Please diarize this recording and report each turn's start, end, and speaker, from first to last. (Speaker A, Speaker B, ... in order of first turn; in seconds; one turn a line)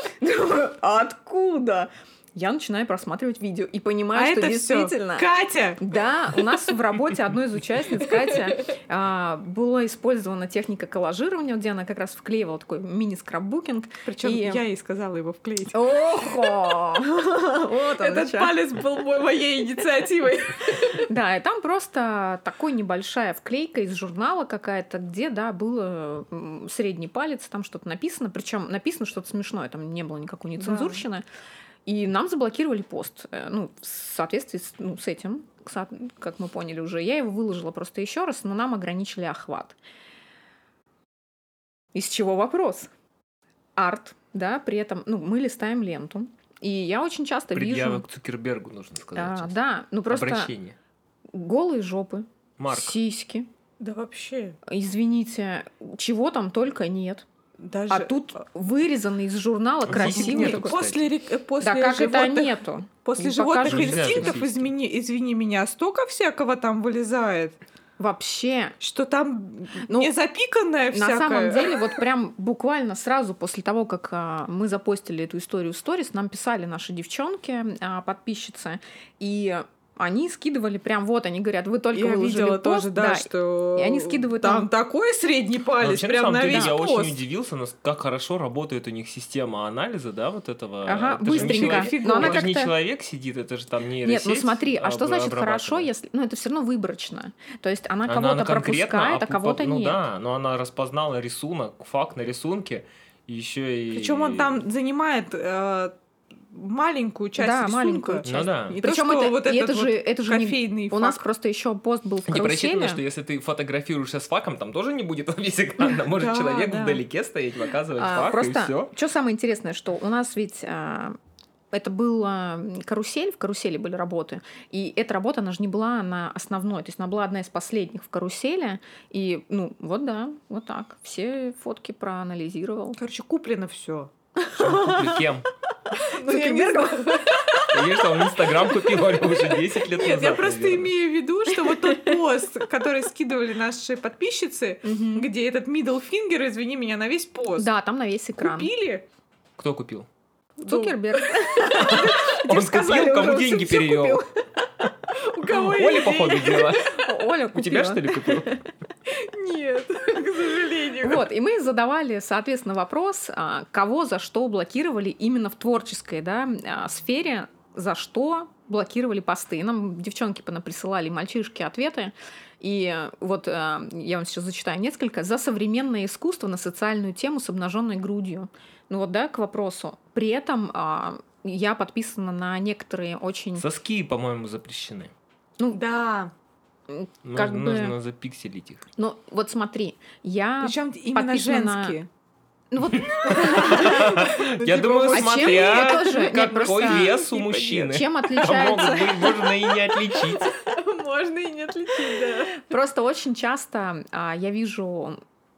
Speaker A: 0.2-5.3
Speaker B: 4.2-5.9
Speaker A: 5.8-14.6
Speaker B: 14.1-15.8
Speaker A: 15.7-18.6
Speaker B: 18.0-21.1
Speaker A: 21.0-31.2
Speaker B: 30.6-31.0
Speaker A: 31.9-39.8
Speaker A: 42.0-42.9
Speaker A: 43.8-48.1
Speaker C: 47.5-49.6
Speaker A: 49.2-50.5
Speaker C: 50.1-50.8
Speaker A: 51.3-53.5
Speaker C: 52.6-53.0
Speaker B: 53.8-54.6
Speaker A: 54.7-57.2
Speaker B: 57.6-58.2
Speaker A: 57.9-60.8
Speaker C: 59.9-61.1
Speaker B: 59.9-67.6
Speaker A: 61.6-64.3
Speaker C: 63.6-64.7
Speaker A: 68.0-68.8
Speaker B: 68.8-72.0
Speaker A: 69.8-70.1
Speaker A: 70.9-84.7
Speaker B: 81.9-87.2
Speaker C: 85.8-95.9
Speaker A: 90.9-92.7
Speaker B: 91.3-92.5
Speaker A: 94.0-100.0
Speaker C: 98.1-104.6
Speaker B: 103.9-106.0
Speaker B: 106.5-111.2
Speaker A: 107.4-113.0
Speaker C: 108.2-108.8
Speaker C: 112.3-118.9
Speaker B: 116.0-117.0
Speaker A: 118.0-121.2
Speaker A: 121.7-133.0
Speaker B: 133.0-134.1
Speaker A: 134.4-135.2
Speaker C: 134.6-135.5
Speaker A: 136.1-137.3
Speaker B: 136.1-137.8
Speaker C: 137.7-140.9
Speaker B: 139.9-147.7
Speaker A: 141.5-142.2
Speaker A: 144.8-145.3
Speaker A: 147.6-148.7
Speaker B: 148.4-149.1
Speaker C: 149.6-150.1
Speaker A: 150.6-154.3
Speaker B: 150.6-152.4
Speaker C: 151.6-154.2
Speaker B: 155.2-157.0
Speaker C: 155.5-158.6
Speaker A: 157.0-158.6
Speaker B: 159.1-161.3
Speaker A: 161.0-183.7
Speaker C: 183.6-185.1
Speaker B: 185.7-186.3
Speaker A: 186.9-188.0
Speaker C: 187.2-188.8
Speaker A: 189.0-192.0
Speaker B: 190.6-192.1
Speaker A: 192.7-194.3
Speaker C: 192.9-200.5
Speaker B: 193.5-198.0
Speaker A: 195.1-197.2
Speaker A: 197.9-199.4
Speaker B: 198.5-199.4
Speaker B: 200.1-202.6
Speaker A: 202.6-205.2